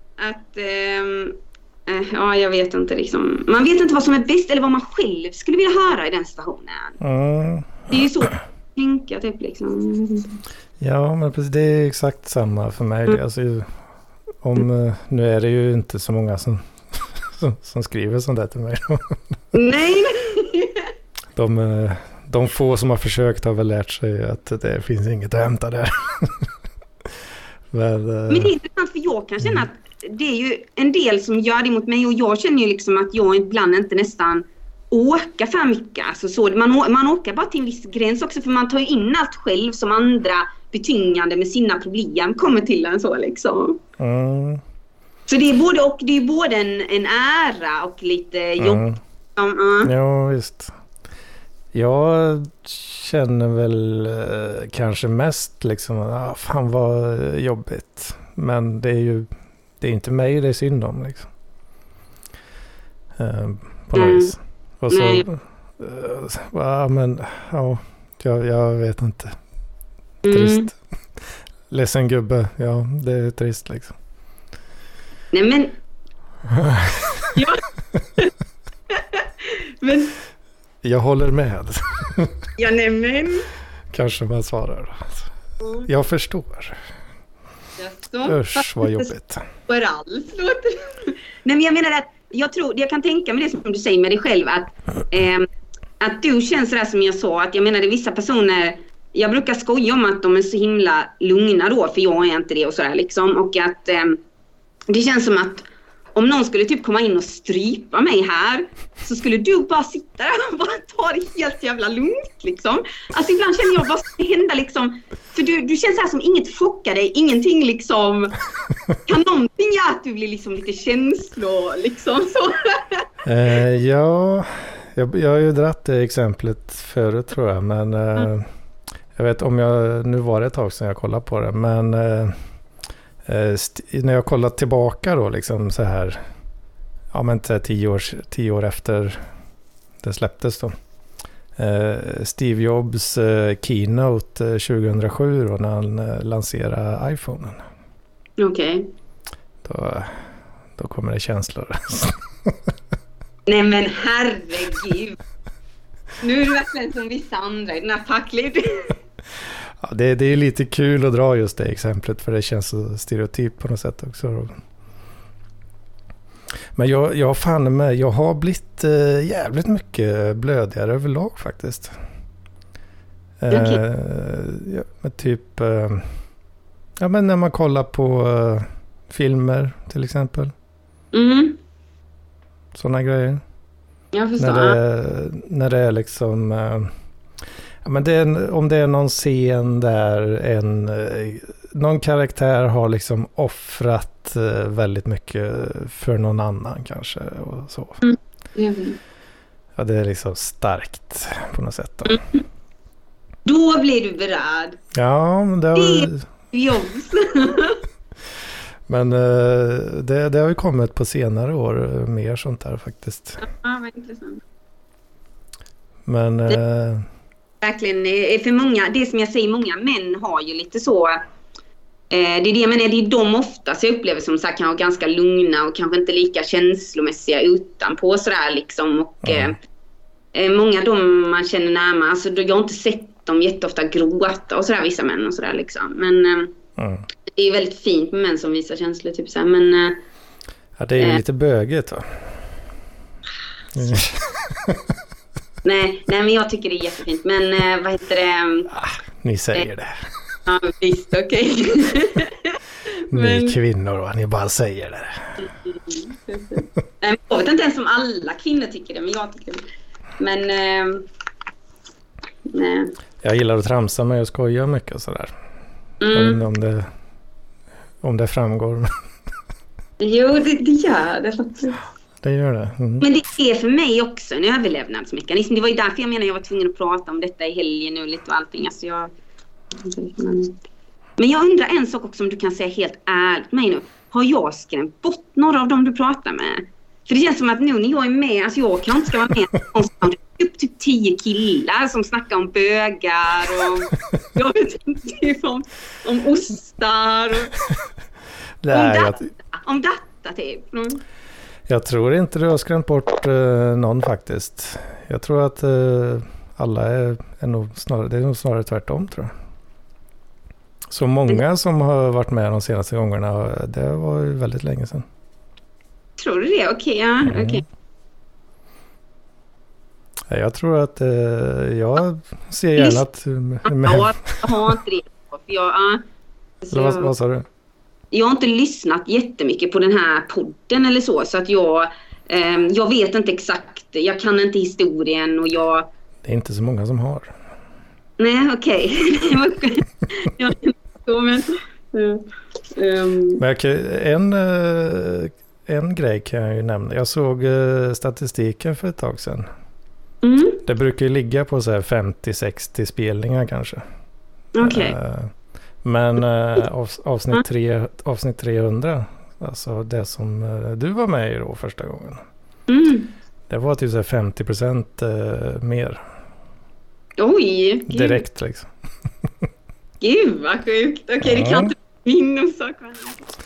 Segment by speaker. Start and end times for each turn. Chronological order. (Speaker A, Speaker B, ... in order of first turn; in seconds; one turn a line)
Speaker A: 0.2-7.0
Speaker B: 7.0-8.3
Speaker A: 7.9-10.4
Speaker B: 10.8-13.7
Speaker B: 14.4-19.4
Speaker A: 19.5-20.9
Speaker B: 21.4-26.5
Speaker B: 27.7-28.5
Speaker A: 28.3-43.8
Speaker B: 44.0-44.6
Speaker A: 45.3-48.8
Speaker B: 48.6-49.0
Speaker A: 49.4-49.9
Speaker B: 49.8-50.7
Speaker B: 51.7-59.3
Speaker B: 59.8-61.3
Speaker B: 63.2-69.4
Speaker A: 64.0-64.4
Speaker A: 64.9-65.3
Speaker A: 70.2-70.7
Speaker B: 70.3-70.8
Speaker B: 71.7-74.0
Speaker A: 75.3-75.8
Speaker B: 76.5-77.4
Speaker A: 77.4-77.6
Speaker A: 78.9-80.1
Speaker B: 80.8-82.4
Speaker A: 82.6-83.5
Speaker B: 83.9-85.3
Speaker A: 85.6-85.9
Speaker B: 85.8-86.8
Speaker A: 87.8-89.1
Speaker B: 88.2-89.5
Speaker A: 89.7-95.5
Speaker A: 96.0-104.2
Speaker A: 104.9-118.4
Speaker A: 119.0-123.1
Speaker B: 123.2-128.5
Speaker B: 129.2-132.4
Speaker B: 133.3-136.2
Speaker B: 137.1-139.2
Speaker B: 140.0-140.8
Speaker B: 141.6-147.6
Speaker A: 148.4-148.9
Speaker B: 149.6-150.2
Speaker B: 150.8-152.6
Speaker A: 153.5-155.2
Speaker A: 156.2-159.0
Speaker B: 159.8-164.6
Speaker B: 166.8-172.0
Speaker B: 173.4-176.1
Speaker A: 173.5-173.8
Speaker B: 177.0-180.5
Speaker A: 181.1-181.6
Speaker B: 182.8-183.4
Speaker A: 184.1-184.8
Speaker B: 184.4-186.9
Speaker B: 187.8-198.0
Speaker A: 198.0-199.0
Speaker B: 199.8-202.2
Speaker A: 203.5-204.8
Speaker B: 204.9-206.3
Speaker A: 205.8-207.8
Speaker B: 208.9-213.4
Speaker A: 213.4-214.4
Speaker B: 216.1-217.1
Speaker A: 217.6-221.2
Speaker A: 222.1-229.6
Speaker B: 229.2-229.6
Speaker A: 230.3-236.5
Speaker B: 236.8-237.1
Speaker A: 237.3-240.0
Speaker B: 240.8-242.3
Speaker B: 243.7-244.8
Speaker A: 245.6-248.7
Speaker B: 248.7-250.1
Speaker A: 250.5-253.6
Speaker B: 253.1-255.4
Speaker A: 255.7-259.6
Speaker A: 260.2-261.1
Speaker A: 262.5-262.9
Speaker B: 263.2-265.3
Speaker A: 266.0-266.4
Speaker B: 266.1-266.9
Speaker B: 268.0-268.9
Speaker A: 270.0-271.8
Speaker B: 272.2-273.1
Speaker A: 273.0-279.1
Speaker A: 279.8-280.6
Speaker A: 281.2-297.5
Speaker B: 298.6-299.3
Speaker A: 298.7-301.0
Speaker B: 301.7-309.3
Speaker B: 310.9-315.1
Speaker A: 316.2-317.6
Speaker B: 317.2-317.6
Speaker B: 320.3-324.8
Speaker A: 322.8-323.0
Speaker A: 323.6-326.0
Speaker A: 326.6-327.1
Speaker B: 326.7-327.5
Speaker A: 328.1-335.9
Speaker B: 336.2-337.3
Speaker A: 338.2-342.2
Speaker A: 342.8-343.4
Speaker B: 343.4-349.5
Speaker A: 350.2-350.6
Speaker B: 350.7-353.8
Speaker A: 354.6-355.0
Speaker B: 354.6-355.3
Speaker B: 355.8-362.2
Speaker A: 362.7-363.1
Speaker B: 363.5-366.0
Speaker A: 367.2-368.2
Speaker B: 367.9-368.7
Speaker A: 370.0-373.2
Speaker B: 371.2-371.7